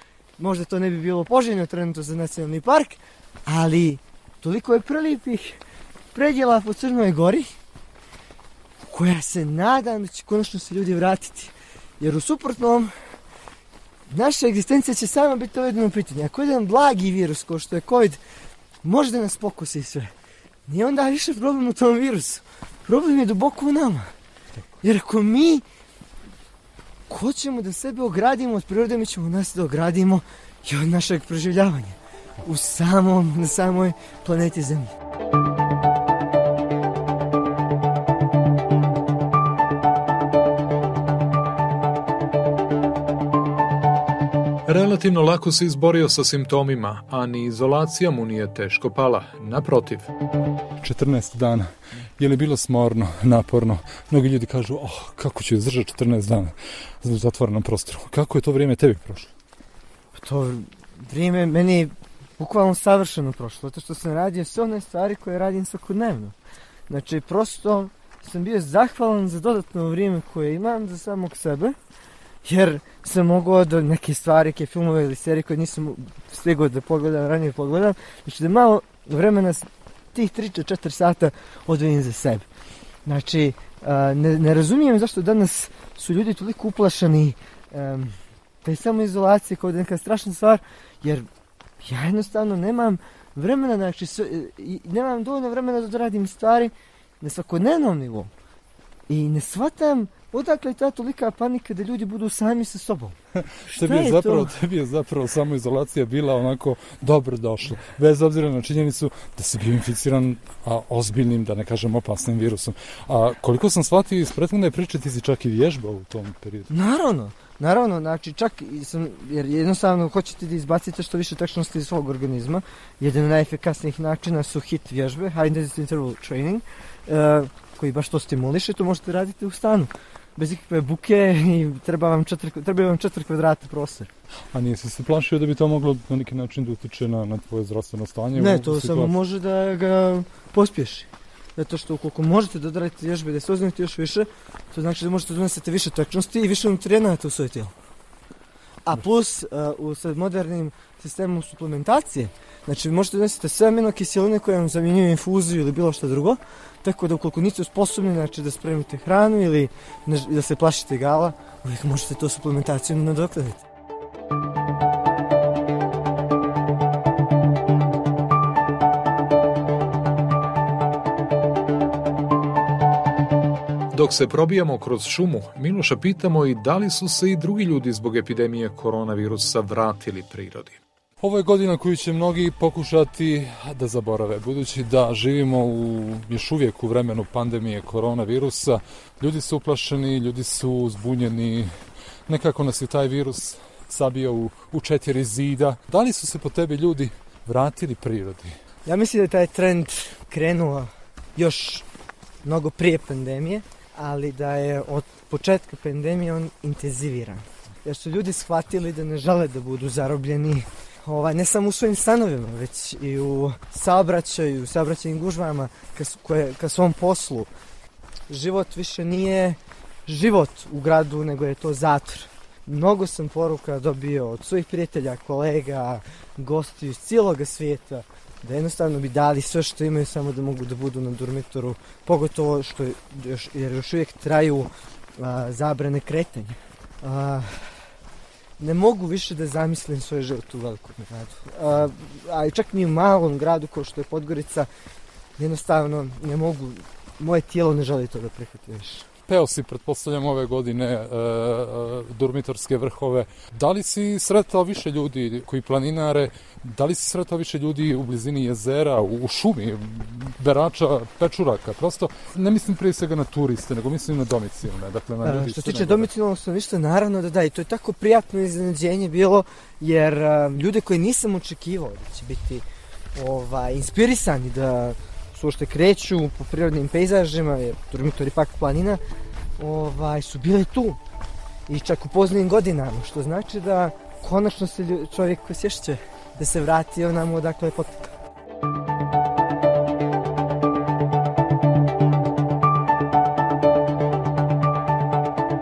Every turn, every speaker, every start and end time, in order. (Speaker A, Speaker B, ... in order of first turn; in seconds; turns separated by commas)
Speaker A: 0.4-5.6, Speaker A: 6.1-7.5, Speaker A: 8.9-12.9, Speaker A: 14.1-18.2, Speaker A: 18.8-20.1, Speaker A: 20.7-24.1, Speaker A: 24.8-25.6, Speaker A: 27.1-34.9, Speaker B: 44.7-50.1, Speaker C: 50.8-59.3, Speaker A: 60.1-66.3, Speaker A: 66.9-71.8, Speaker A: 72.4-82.5, Speaker A: 83.0-91.3, Speaker A: 91.8-98.3, Speaker A: 99.1-103.2, Speaker C: 103.3-116.7, Speaker A: 103.7-104.5, Speaker A: 116.7-134.1, Speaker C: 134.5-139.1, Speaker A: 138.3-147.7, Speaker A: 148.8-163.6, Speaker B: 173.9-180.8, Speaker C: 181.2-191.7, Speaker C: 192.3-198.5, Speaker A: 198.8-201.8, Speaker A: 202.4-217.5, Speaker A: 218.3-237.8, Speaker A: 238.6-244.7, Speaker A: 245.4-249.1, Speaker C: 249.3-266.1, Speaker A: 265.2-279.0, Speaker A: 279.6-281.0, Speaker A: 281.7-288.1